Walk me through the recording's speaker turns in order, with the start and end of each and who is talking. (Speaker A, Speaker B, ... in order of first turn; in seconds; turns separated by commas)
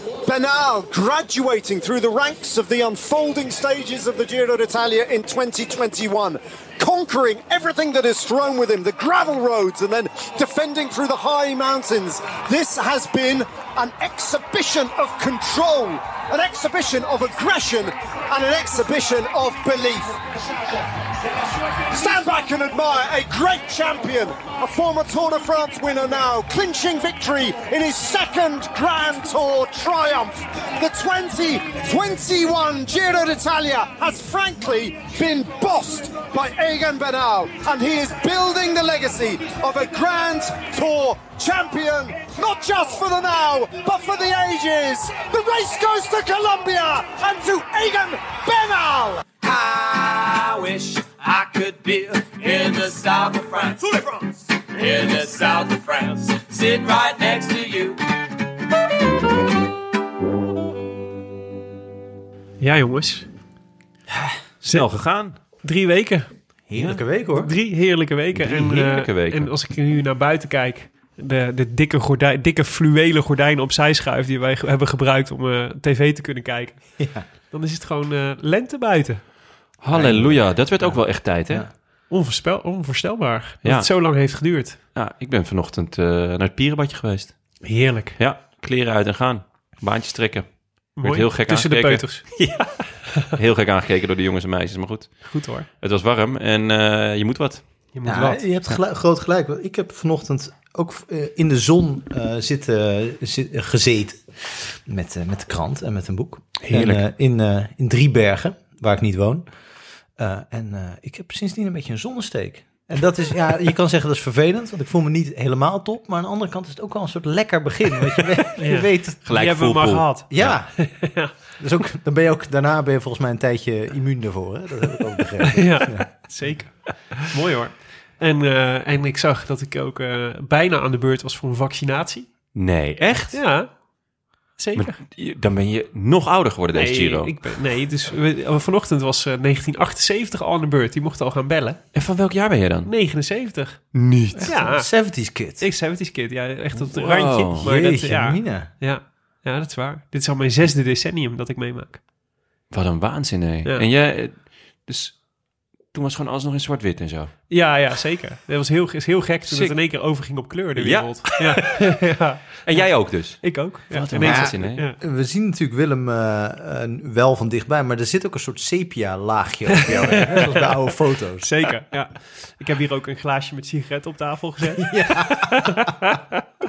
Speaker A: 0.2-20.2, Speaker A: 21.8-49.2, Speaker B: 49.4-58.0, Speaker C: 62.6-63.3, Speaker D: 64.6-65.4, Speaker C: 65.6-66.3, Speaker E: 66.7-67.5, Speaker C: 67.3-76.8, Speaker D: 68.3-69.5, Speaker E: 77.0-77.2, Speaker C: 77.5-79.2, Speaker D: 79.8-81.7, Speaker E: 79.9-81.7, Speaker C: 82.1-84.8, Speaker D: 84.9-87.4, Speaker C: 87.6-88.2, Speaker D: 88.2-92.0, Speaker C: 91.0-93.3, Speaker D: 93.3-97.6, Speaker C: 95.2-95.7, Speaker C: 97.9-98.4, Speaker E: 98.0-109.4, Speaker D: 106.6-107.0, Speaker E: 110.2-119.2, Speaker C: 118.6-121.3, Speaker D: 119.2-120.6, Speaker E: 120.3-121.0, Speaker E: 121.6-126.1, Speaker C: 125.5-132.3, Speaker D: 132.5-133.4, Speaker C: 133.3-133.8, Speaker C: 134.6-135.0, Speaker D: 134.8-137.4, Speaker C: 136.7-141.8, Speaker D: 141.9-142.9, Speaker C: 142.8-143.9, Speaker D: 143.9-144.5, Speaker E: 144.4-145.6, Speaker C: 144.4-144.9, Speaker C: 145.6-152.0, Speaker D: 146.9-147.6, Speaker E: 147.6-148.7, Speaker D: 152.7-155.2, Speaker D: 155.9-157.3, Speaker C: 157.5-165.0, Speaker D: 159.5-159.8, Speaker D: 160.8-161.8, Speaker D: 162.7-164.8, Speaker E: 164.2-171.5, Speaker C: 169.8-170.7, Speaker C: 171.4-176.2, Speaker E: 174.8-175.7